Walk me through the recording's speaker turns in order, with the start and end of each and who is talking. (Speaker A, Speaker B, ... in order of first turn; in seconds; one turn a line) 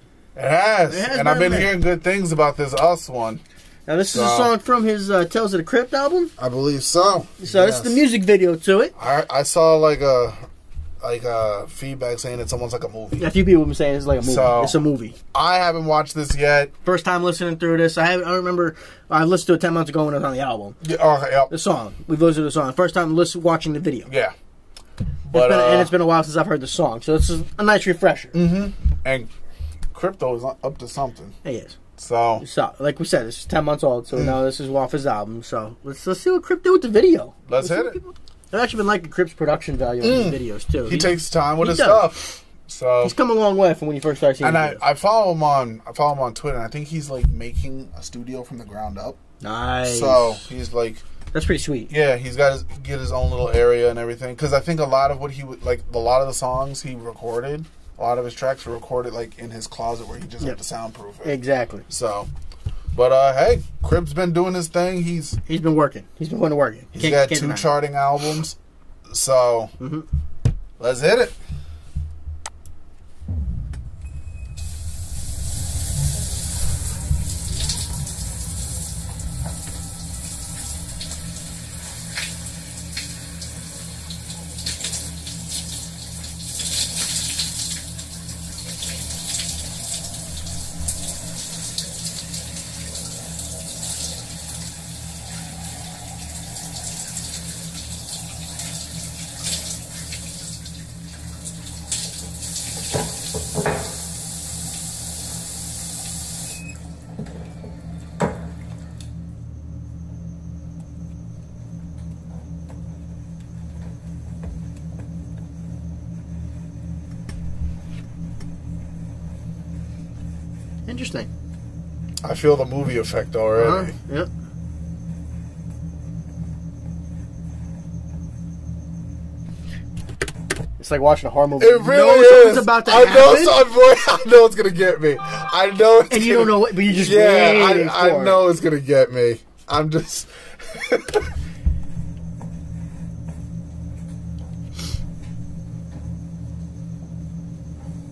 Speaker A: 0.4-3.4
Speaker B: 0.9-1.7
Speaker B: 3.9-6.3
Speaker A: 4.1-4.5
Speaker A: 6.4-8.0
Speaker B: 7.4-8.9
Speaker A: 9.0-10.4
Speaker A: 11.0-13.3
Speaker B: 13.2-15.2
Speaker A: 14.2-14.8
Speaker A: 15.3-16.7
Speaker B: 16.8-20.8
Speaker A: 20.8-21.5
Speaker B: 21.5-24.1
Speaker A: 24.1-24.3
Speaker A: 25.3-25.9
Speaker B: 25.3-28.4
Speaker A: 28.3-29.3
Speaker A: 29.9-31.4
Speaker B: 31.4-31.8
Speaker A: 32.0-32.4
Speaker B: 32.4-42.1
Speaker A: 34.1-34.4
Speaker A: 37.5-38.0
Speaker A: 40.0-43.1
Speaker B: 43.0-44.8
Speaker A: 44.4-49.2
Speaker B: 49.4-50.5
Speaker A: 49.9-51.0
Speaker B: 51.3-51.9
Speaker A: 51.9-61.4
Speaker B: 61.2-61.9
Speaker A: 61.9-62.3
Speaker A: 62.9-65.4
Speaker B: 65.5-67.7
Speaker A: 67.0-68.6
Speaker A: 69.1-69.7
Speaker B: 69.8-70.1
Speaker A: 70.8-71.4
Speaker B: 120.9-121.3
Speaker A: 122.2-124.0
Speaker B: 123.6-124.3
Speaker B: 130.8-133.6
Speaker A: 131.6-141.3
Speaker B: 136.1-138.4